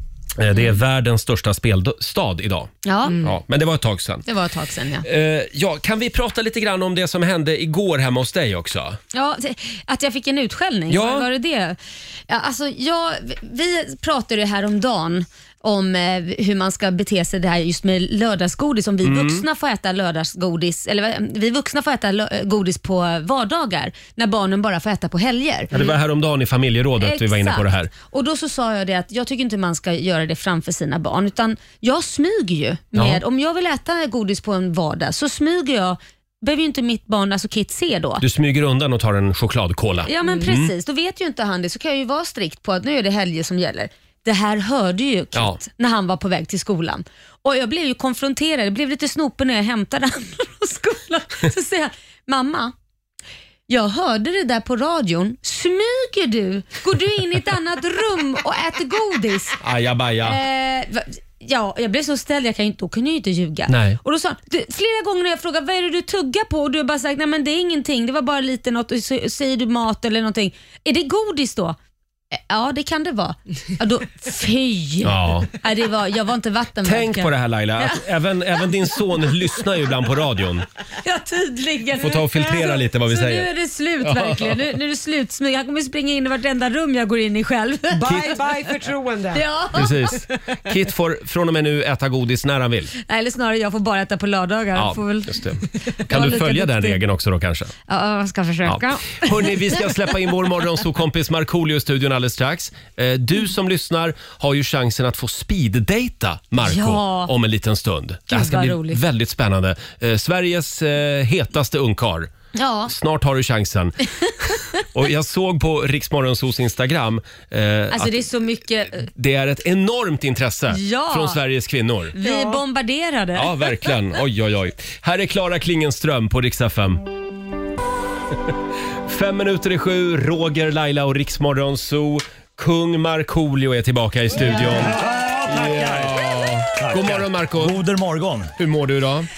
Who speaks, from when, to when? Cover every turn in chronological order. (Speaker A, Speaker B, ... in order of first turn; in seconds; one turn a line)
Speaker A: 0.4-4.3
Speaker B: 2.9-3.2
Speaker C: 3.1-3.3
Speaker B: 4.3-5.1
Speaker A: 5.0-9.0
Speaker B: 9.1-11.8
Speaker A: 10.9-11.3
Speaker B: 12.3-25.9
Speaker A: 19.0-19.4
Speaker A: 25.7-27.9
Speaker B: 27.0-38.2
Speaker A: 32.9-33.2
Speaker A: 38.2-40.7
Speaker B: 40.1-52.7
Speaker B: 53.7-59.6
Speaker A: 59.6-60.4
Speaker B: 60.2-71.8
Speaker A: 63.7-64.0
Speaker B: 72.3-78.0
Speaker A: 75.0-75.5
Speaker A: 76.8-80.7
Speaker B: 81.0-88.3
Speaker A: 82.0-83.5
Speaker A: 84.0-84.6
Speaker C: 88.0-89.5
Speaker A: 88.1-88.3
Speaker B: 89.3-90.1
Speaker A: 89.7-92.9
Speaker B: 93.0-95.3
Speaker A: 94.8-97.7
Speaker B: 96.1-97.0
Speaker B: 97.9-99.3
Speaker A: 98.7-112.3
Speaker B: 106.6-107.3
Speaker B: 108.3-109.0
Speaker B: 112.5-112.9
Speaker A: 112.9-118.3
Speaker B: 117.9-119.1
Speaker A: 118.9-122.2
Speaker B: 120.7-121.4
Speaker B: 122.2-123.7
Speaker C: 122.2-122.6
Speaker A: 123.3-127.0
Speaker A: 129.1-137.8
Speaker D: 134.4-138.5
Speaker A: 138.6-139.3